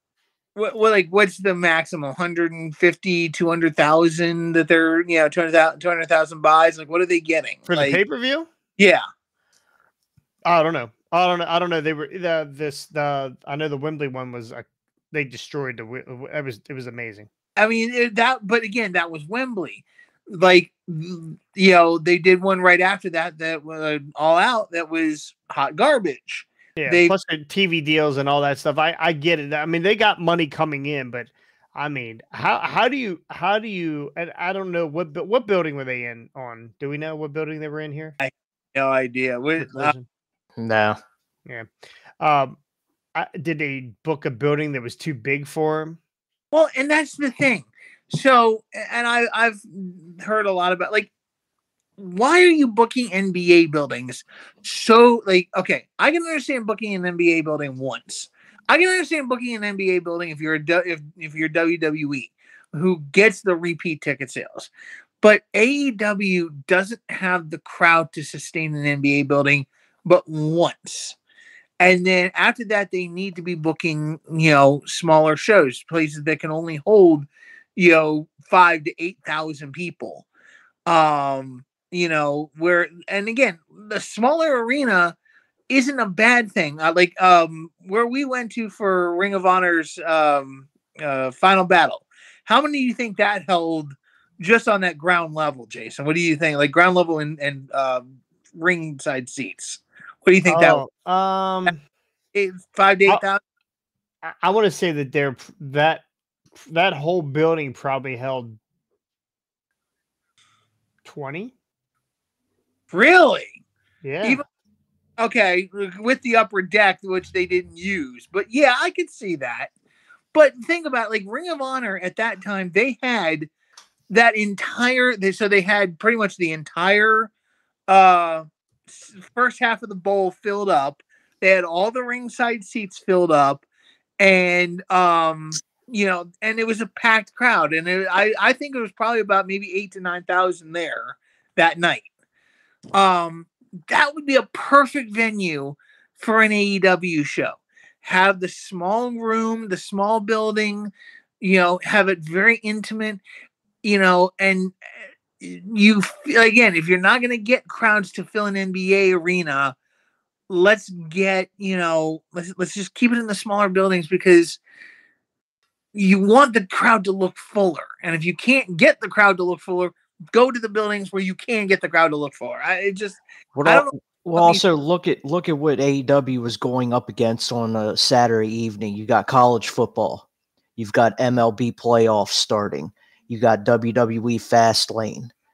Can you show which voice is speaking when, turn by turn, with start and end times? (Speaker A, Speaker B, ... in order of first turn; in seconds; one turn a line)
Speaker A: 0.6-8.0
Speaker B: 7.7-8.5
Speaker A: 8.8-9.0
Speaker B: 10.4-17.3
Speaker A: 17.6-27.1
Speaker B: 26.8-38.2
Speaker A: 38.2-39.9
Speaker B: 39.6-40.0
Speaker C: 40.5-41.0
Speaker B: 42.2-42.6
Speaker B: 43.1-46.0
Speaker A: 46.5-51.1
Speaker A: 52.0-64.7
Speaker A: 65.2-71.2
Speaker A: 71.8-80.3
Speaker A: 80.8-85.1
Speaker A: 85.7-100.8
Speaker B: 100.5-101.8
Speaker A: 102.3-103.4
Speaker B: 104.2-106.0
Speaker B: 106.6-108.6
Speaker B: 111.0-111.5
Speaker A: 112.9-113.6
Speaker B: 114.0-114.4
Speaker A: 115.2-119.7
Speaker A: 120.3-123.5
Speaker A: 124.1-127.3
Speaker A: 127.9-133.6
Speaker A: 134.2-142.1
Speaker A: 142.9-153.2
Speaker A: 153.8-154.7
Speaker A: 155.4-159.7
Speaker A: 160.5-164.6
Speaker A: 165.9-174.6
Speaker C: 173.6-185.3